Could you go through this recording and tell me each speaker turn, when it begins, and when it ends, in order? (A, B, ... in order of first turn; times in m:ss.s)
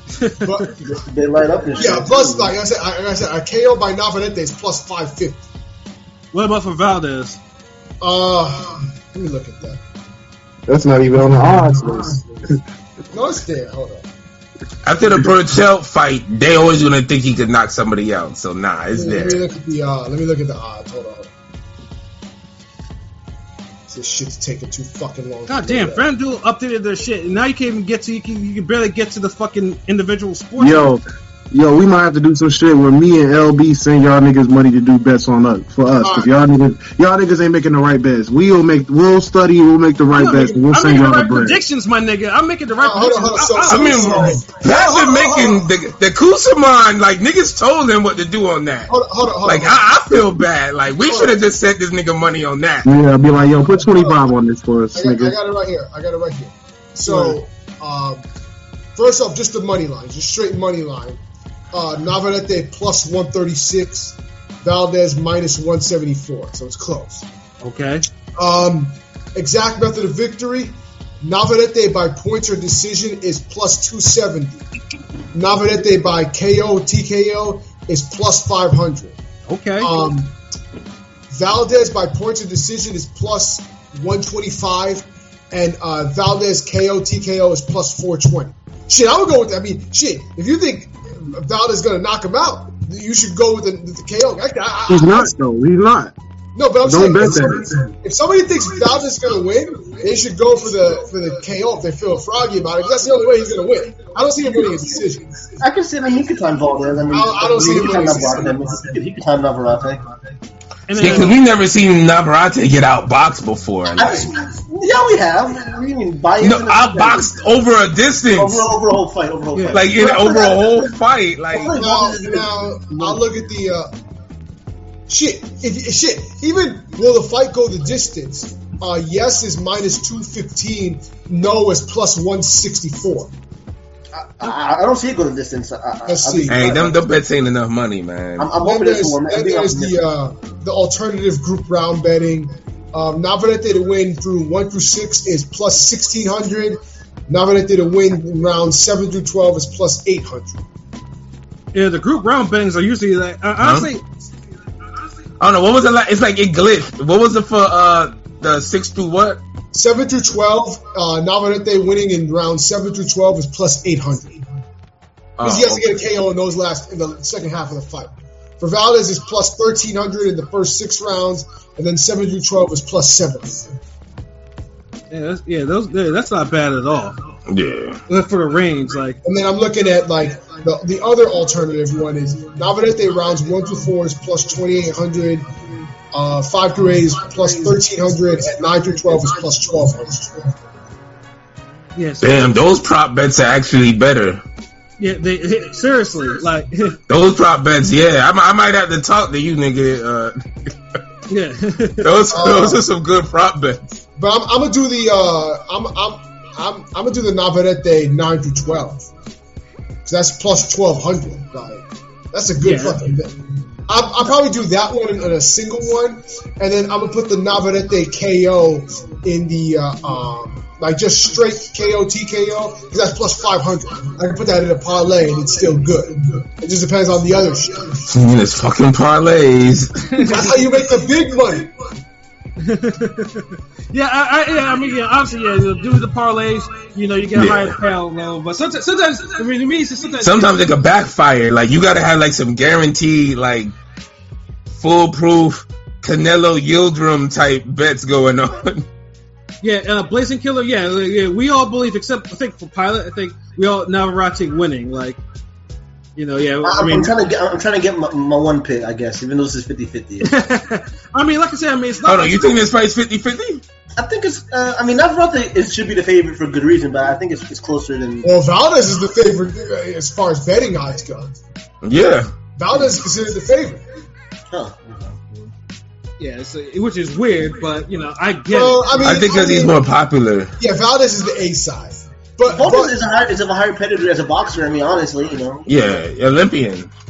0:00.2-0:00.7 A
0:00.4-0:00.8 B
0:00.8-0:02.5 C
0:01.8-0:05.4 B
0:06.3-0:07.4 A
0:08.0-0:09.8 B
0:10.7-0:12.2 D
0:13.1-0:14.1 B
0:14.8-0:19.4 E
0:18.9-0:21.3 B
0:23.9-0:26.1 B
0:25.5-0:31.0 A
0:30.6-0:41.6 D
0:36.0-0:36.3 B
0:40.1-0:44.4 A
0:42.8-0:45.7 B
0:43.7-0:48.9 E
0:48.9-0:50.2 B
0:49.4-0:52.9 E
0:51.0-0:51.4 B
0:52.8-0:55.4 D
0:53.8-0:54.3 B
0:55.0-0:58.2 B
0:57.1-0:57.4 A
0:59.0-1:01.2 B
1:01.7-1:07.3 B
1:07.6-1:08.0 A
1:08.4-1:14.7 B
1:15.3-1:19.2 B
1:19.5-1:19.9 A
1:19.8-1:20.3 B
1:21.3-1:35.3 B
1:34.9-1:36.1 D
1:36.6-1:45.5 B
1:36.8-1:37.8 D
1:45.6-1:50.0 C
1:47.1-1:48.7 B
1:50.9-1:51.4 A
1:51.0-1:54.3 E
1:53.9-1:57.4 C
1:56.4-1:58.7 E
1:58.3-2:00.9 C
1:59.5-1:59.9 A
1:59.7-2:01.8 E
2:01.5-2:03.2 C
2:01.7-2:03.9 B
2:05.1-2:13.3 B
2:14.1-2:17.0 C
2:16.1-2:16.8 B
2:16.5-2:18.5 E
2:18.4-2:20.0 C
2:18.6-2:30.6 B
2:31.7-2:34.0 A
2:33.6-2:33.9 E
2:35.4-2:39.4 E
2:39.7-2:44.4 B
2:45.4-2:45.9 E
2:45.4-2:53.7 B
2:55.1-2:57.2 A
2:57.5-2:58.0 E
2:58.1-2:59.2 A
2:59.2-3:05.5 B
3:06.1-3:10.6 B
3:12.0-3:12.6 A
3:12.2-3:14.4 E
3:15.0-3:17.0 A
3:17.1-3:20.4 E
3:21.3-3:22.1 A
3:22.0-3:23.8 E
3:22.3-3:22.8 B
3:24.2-3:29.1 B
3:30.1-3:33.4 B
3:32.6-3:33.0 A
3:33.9-3:48.0 B
3:48.1-3:50.0 E
3:50.1-3:50.4 A
3:50.2-3:51.8 B
3:52.6-4:00.6 A
3:57.4-3:57.7 E
4:00.2-4:03.7 E
4:04.7-4:08.9 E
4:09.6-4:15.2 A
4:16.2-4:17.1 A
4:16.6-4:20.3 C
4:20.2-4:22.6 A
4:22.0-4:23.6 E
4:24.0-4:28.3 C
4:28.2-4:31.3 B
4:31.8-4:32.3 E
4:32.6-4:33.8 B
4:34.5-4:35.5 C
4:36.2-4:39.0 A
4:38.5-4:39.8 B
4:39.0-4:40.6 E
4:40.6-4:43.0 B
4:42.5-4:45.9 C
4:45.7-4:46.9 E